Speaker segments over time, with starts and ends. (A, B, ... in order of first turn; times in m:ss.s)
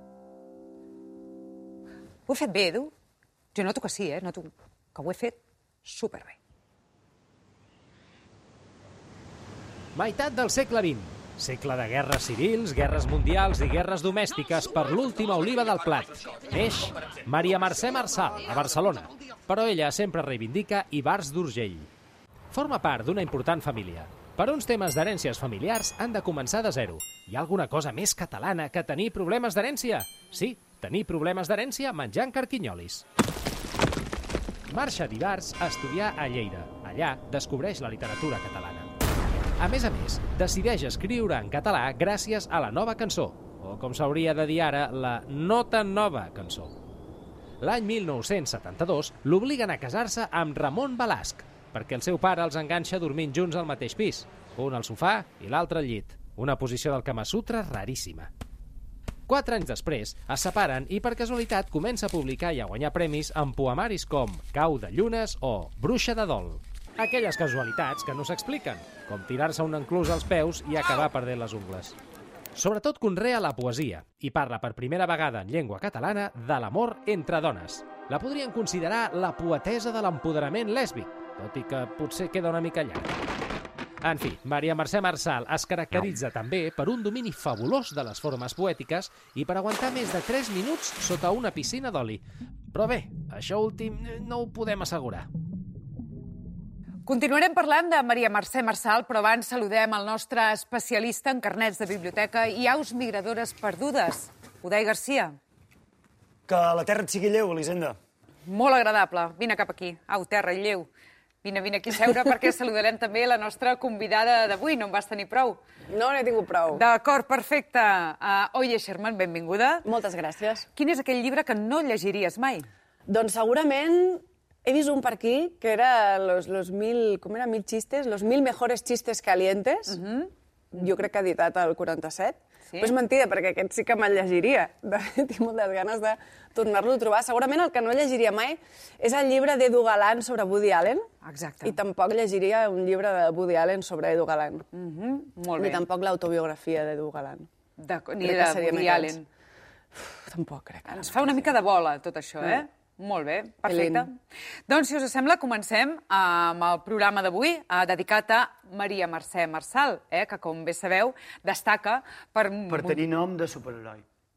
0:02.3-0:02.9 A
0:03.5-0:06.4 A
0:09.9-0:21.9 B
0:22.5-0:33.0 B
0:34.7-0:38.9 B
0:39.6-0:46.7 B
0:47.6-0:58.3 B
0:59.3-1:12.0 B
1:12.6-1:23.1 B
1:24.0-1:35.3 B
1:37.0-1:45.4 A
1:46.5-1:48.0 C
1:48.5-1:50.9 A
1:51.4-1:55.6 A
1:55.9-1:56.8 D
1:56.7-1:59.9 A
1:59.8-2:00.7 D
2:00.7-2:02.7 A
2:03.1-2:10.0 D
2:09.9-2:10.9 A
2:10.7-2:21.1 D
2:21.2-2:21.8 A
2:21.6-2:24.6 D
2:24.7-2:25.8 A
2:25.6-2:27.5 D
2:27.8-2:29.3 A
2:28.2-2:29.2 D
2:29.9-2:31.5 D
2:30.9-2:34.2 A
2:33.6-2:34.1 D
2:34.7-2:43.0 A
2:42.7-2:44.0 C